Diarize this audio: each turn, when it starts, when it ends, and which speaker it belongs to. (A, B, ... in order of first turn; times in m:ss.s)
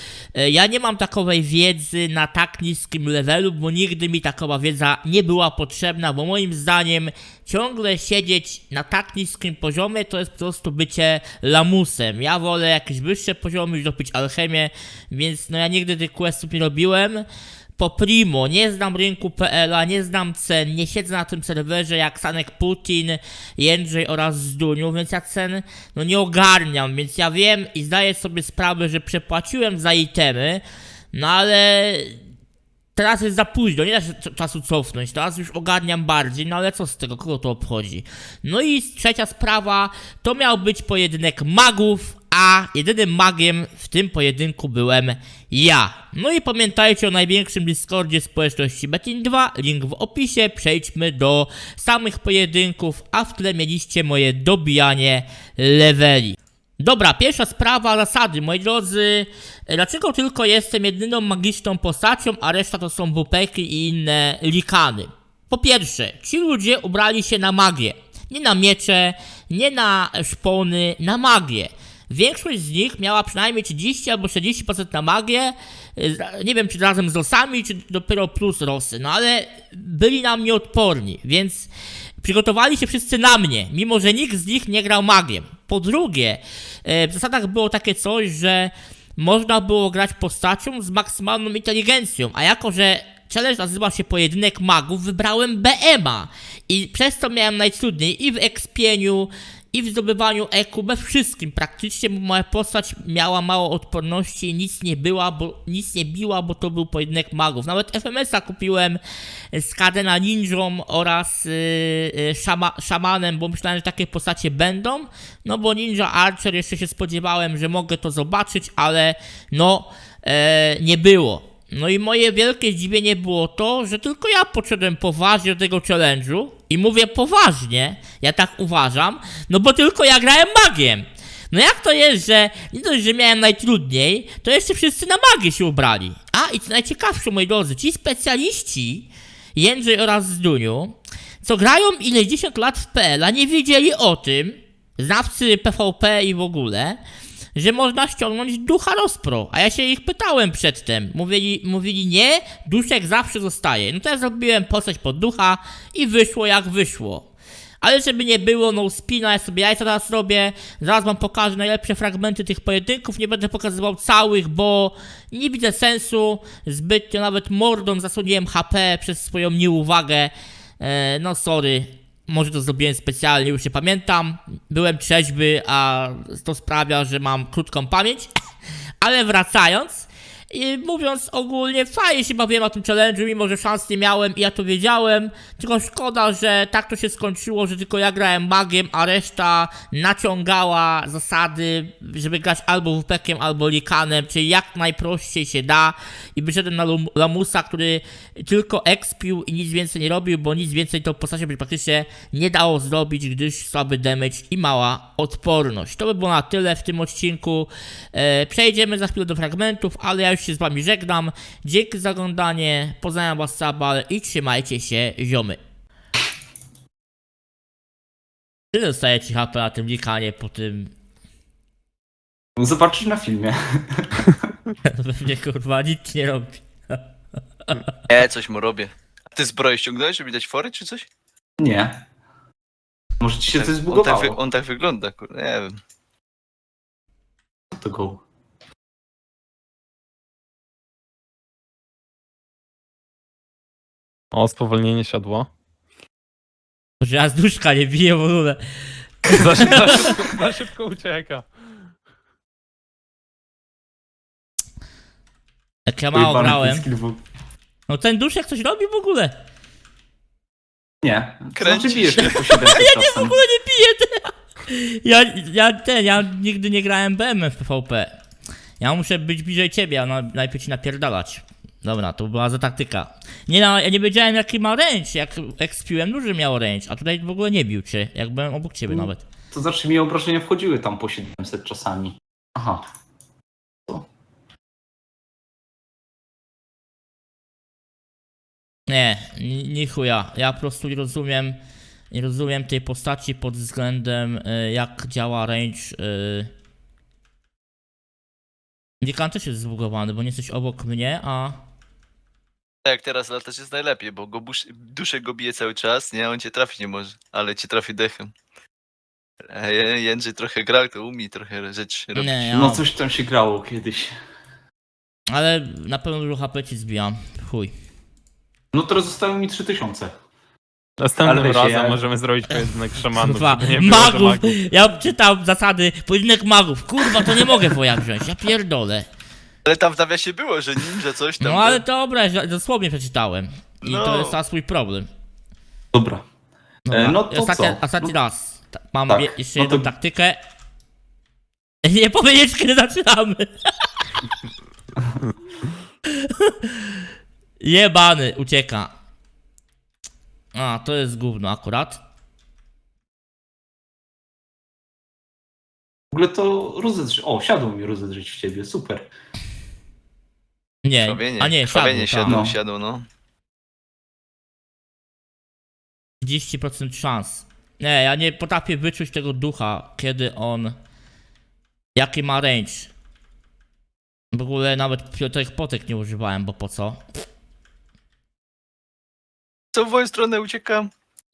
0:00.3-0:17.2 A
0:17.8-0:32.2 A
0:33.0-1:21.7 A
1:22.2-1:49.0 A
1:49.5-2:27.0 A
2:27.5-2:37.3 A
2:37.8-2:58.3 A
2:59.0-3:35.6 A
3:38.7-3:40.9 A
3:42.6-3:44.5 B
3:44.8-3:47.0 A
3:48.1-3:51.0 C
3:51.6-3:52.0 B
3:53.2-3:54.4 B
3:53.5-3:55.8 C
3:57.7-3:58.2 B
4:04.3-4:05.5 D
4:07.0-4:08.6 A
4:09.2-4:10.0 A
4:09.3-4:11.6 D
4:15.9-4:16.8 A
4:16.1-4:17.2 B
4:17.9-4:19.3 A
4:21.0-4:23.4 B
4:21.6-4:22.7 C
4:22.2-4:28.1 A
4:28.8-4:39.2 A
4:38.9-4:42.8 B
4:48.9-4:51.6 A
4:52.1-4:56.5 A
4:59.0-5:01.6 A
5:02.8-5:08.3 C
5:09.5-5:12.5 C
5:12.2-5:12.8 A
5:12.5-5:14.1 B
5:15.3-5:17.7 A
5:18.7-5:20.1 B
5:21.0-5:24.6 D
5:21.2-5:22.0 B
5:23.2-5:29.0 A
5:29.6-5:31.8 C
5:31.4-5:35.1 A
5:33.8-5:34.4 C
5:35.9-5:36.2 B
5:36.8-5:40.4 A
5:36.9-5:38.2 B
5:39.1-5:39.9 B
5:41.8-5:43.5 A
5:46.1-5:46.7 A
5:47.6-5:48.9 A
5:50.5-5:52.0 A
5:56.1-5:59.1 B
6:00.8-6:02.4 A
6:01.0-6:03.0 C
6:02.2-6:02.5 B
6:06.2-6:10.7 A
6:12.0-6:12.9 A
6:14.3-6:17.0 A
6:19.7-6:20.9 C